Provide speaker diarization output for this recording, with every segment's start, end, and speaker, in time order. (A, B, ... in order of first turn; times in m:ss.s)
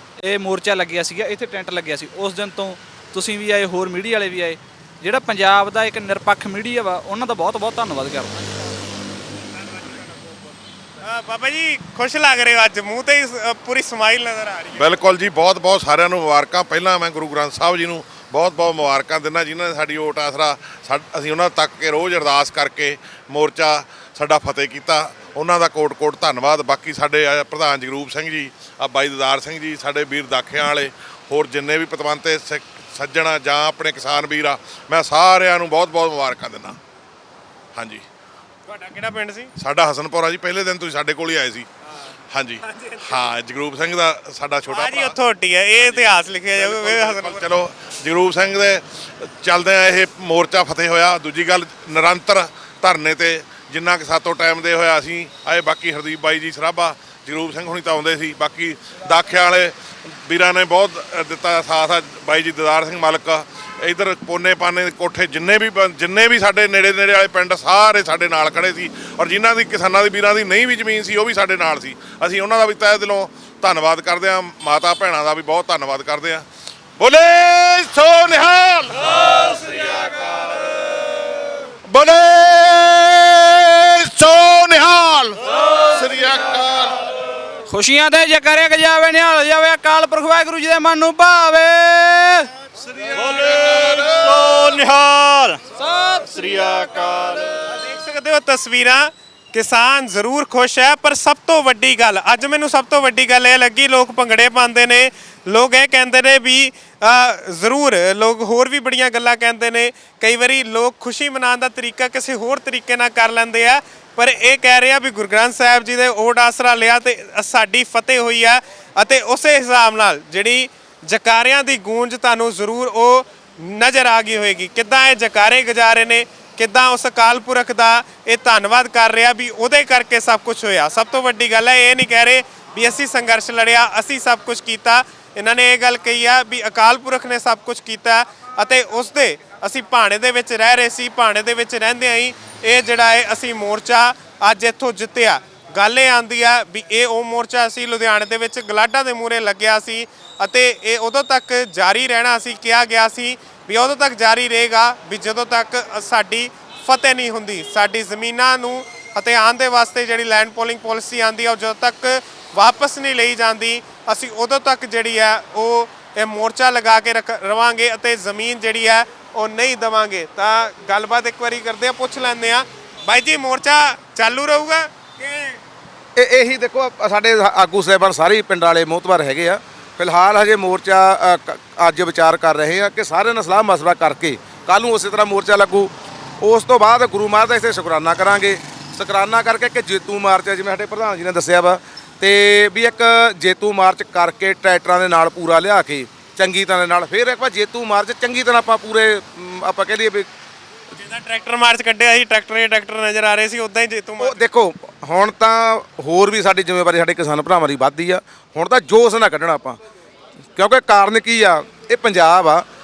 0:00.2-0:08.4 A
0:11.0-0:14.9 B
0:14.8-0:36.8 C
0:37.8-0:38.0 C
0:38.7-0:39.5 B
0:39.6-0:41.7 C
0:42.3-0:45.2 C
0:42.6-0:43.2 B
0:44.7-0:47.6 B
0:45.8-0:59.7 C
1:00.3-1:16.4 C
1:17.0-1:21.3 C
1:21.8-1:27.0 C
1:27.7-1:32.5 A
1:33.0-1:35.6 D
1:33.4-1:34.0 C
1:35.9-1:36.2 A
1:36.2-1:37.6 D
1:37.7-2:55.6 B
2:56.2-3:20.3 E
3:20.9-3:24.4 B
3:24.2-3:29.8 E
3:30.6-3:32.6 E